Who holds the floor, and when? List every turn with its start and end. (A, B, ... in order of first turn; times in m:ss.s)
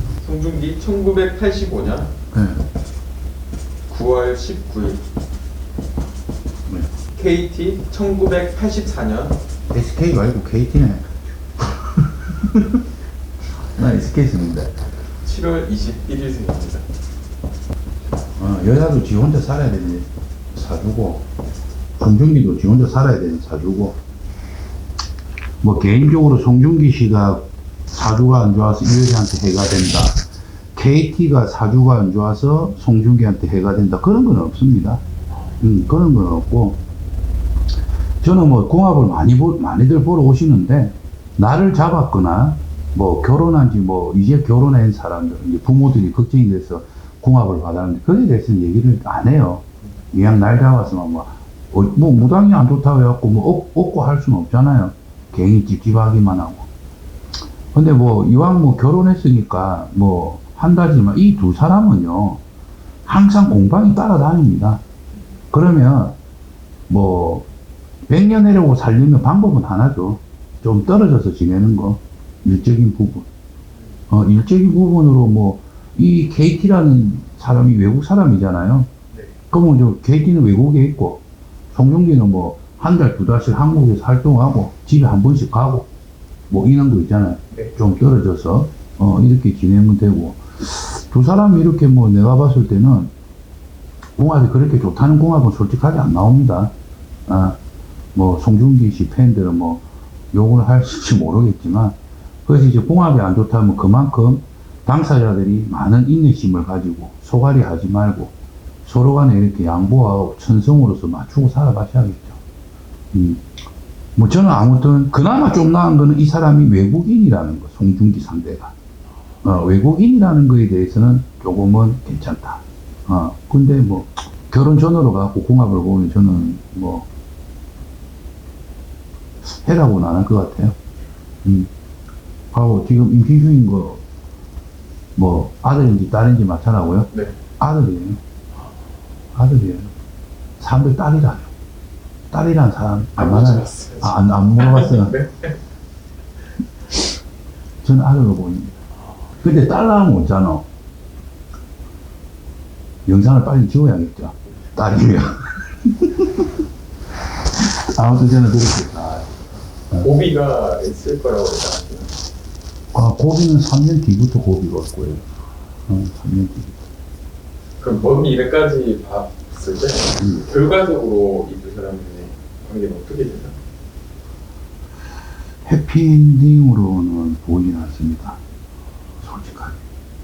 0:00.2-0:02.2 A
0:02.3-0:02.6 B
0:03.9-0:05.0 A
0:07.1-0:09.4 A
0:09.7-0:12.8 B
0:13.7-0:14.7 B
0:15.2-0:16.9 A
0:18.4-0:21.2 B
0:22.0-0:24.0 B
0:25.6-0:35.0 B
0:35.6-0:36.8 B
0:38.2-0:56.7 B
0:57.7-1:02.4 B
1:03.0-1:04.8 B
1:05.5-1:06.2 B
1:06.9-1:07.5 B
1:08.1-1:13.3 B
1:14.1-1:18.9 B
1:19.5-1:25.9 B
1:26.5-1:33.1 B
1:34.2-1:36.7 B
1:37.3-1:37.6 B
1:38.1-1:48.3 B
1:48.8-1:52.4 B
1:53.1-1:53.5 B
1:54.2-1:58.7 B
1:59.4-2:07.0 B
2:09.4-2:10.8 B
2:11.4-2:11.7 B
2:12.5-2:14.0 B
2:15.2-2:18.2 B
2:19.3-2:19.9 B
2:20.6-2:21.5 B
2:22.3-2:25.2 B
2:23.2-2:25.5 A
2:27.8-2:28.8 B
2:29.4-2:30.6 B
2:33.0-2:36.5 B
2:37.5-2:39.3 B
2:40.0-2:42.1 A
2:42.9-2:45.2 B
2:45.9-2:46.8 B
2:47.8-2:53.6 A
2:50.2-2:50.4 B
2:55.6-2:58.4 B
2:59.2-2:59.8 B